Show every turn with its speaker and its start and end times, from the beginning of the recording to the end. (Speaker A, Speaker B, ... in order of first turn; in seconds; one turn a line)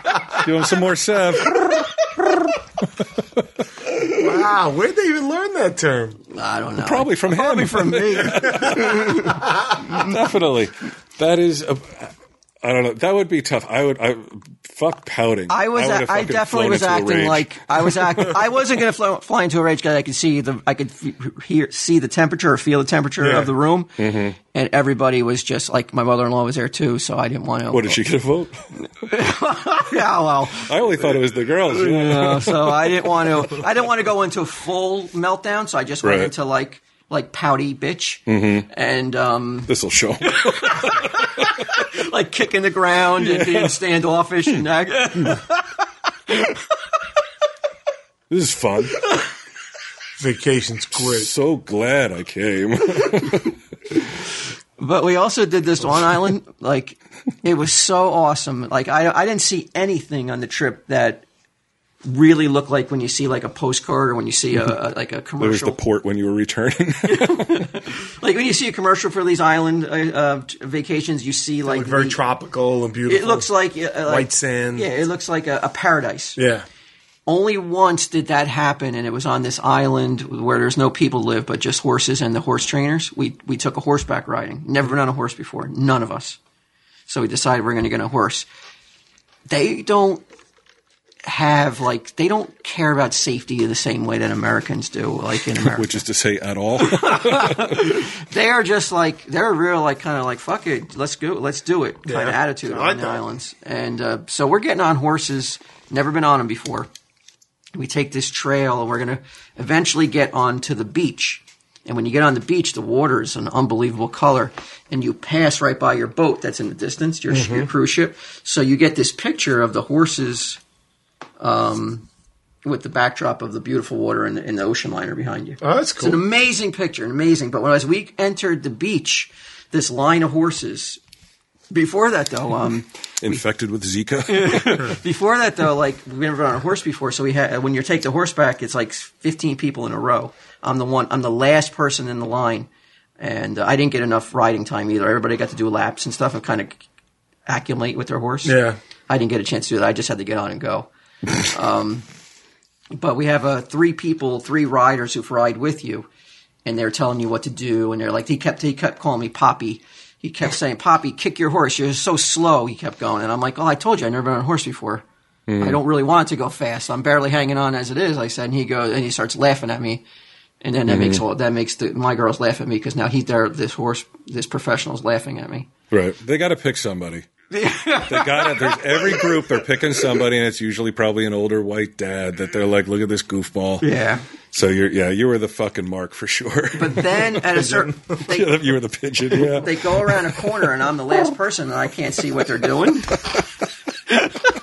Speaker A: 0.2-1.7
Speaker B: 4.0-6.2
Speaker C: 6.3-9.3
Speaker A: 6.8-18.0
Speaker C: 15.5-23.9
Speaker B: 23.2-23.5
Speaker A: 24.0-24.4
Speaker C: 24.5-28.0
Speaker A: 27.7-28.6
Speaker C: 29.0-30.8
Speaker A: 30.6-33.1
Speaker C: 31.7-39.7
Speaker A: 36.0-36.3
Speaker A: 38.3-38.7
Speaker A: 39.7-40.9
Speaker C: 40.3-45.6
Speaker A: 43.2-43.7
Speaker C: 46.3-46.6
Speaker A: 48.3-49.0
Speaker B: 50.2-51.3
Speaker A: 51.0-53.5
Speaker C: 54.8-61.2
Speaker C: 62.0-65.8
Speaker A: 65.4-67.7
Speaker C: 67.1-72.2
Speaker B: 71.7-73.5
Speaker C: 73.1-76.4
Speaker B: 74.1-74.9
Speaker B: 76.4-76.7
Speaker C: 77.3-86.4
Speaker C: 87.1-88.5
Speaker C: 89.5-90.2
Speaker C: 91.2-96.0
Speaker A: 95.6-97.9
Speaker C: 96.8-106.9
Speaker B: 102.1-103.2
Speaker C: 107.7-120.6
Speaker B: 117.3-117.7
Speaker C: 121.4-122.1
Speaker C: 122.7-131.0
Speaker B: 125.6-126.2
Speaker C: 131.7-133.4
Speaker A: 133.2-135.0
Speaker C: 134.3-142.7
Speaker C: 143.2-146.8
Speaker C: 147.5-148.6
Speaker B: 148.4-148.8
Speaker C: 149.1-152.1
Speaker C: 152.9-156.1
Speaker C: 156.7-165.1
Speaker A: 165.5-165.8
Speaker C: 165.6-170.0
Speaker C: 170.6-175.7
Speaker A: 170.9-171.2
Speaker A: 175.9-177.3
Speaker C: 177.5-179.5
Speaker A: 178.1-183.9
Speaker C: 183.8-184.2
Speaker A: 184.5-190.4
Speaker C: 186.8-188.6
Speaker C: 189.5-193.1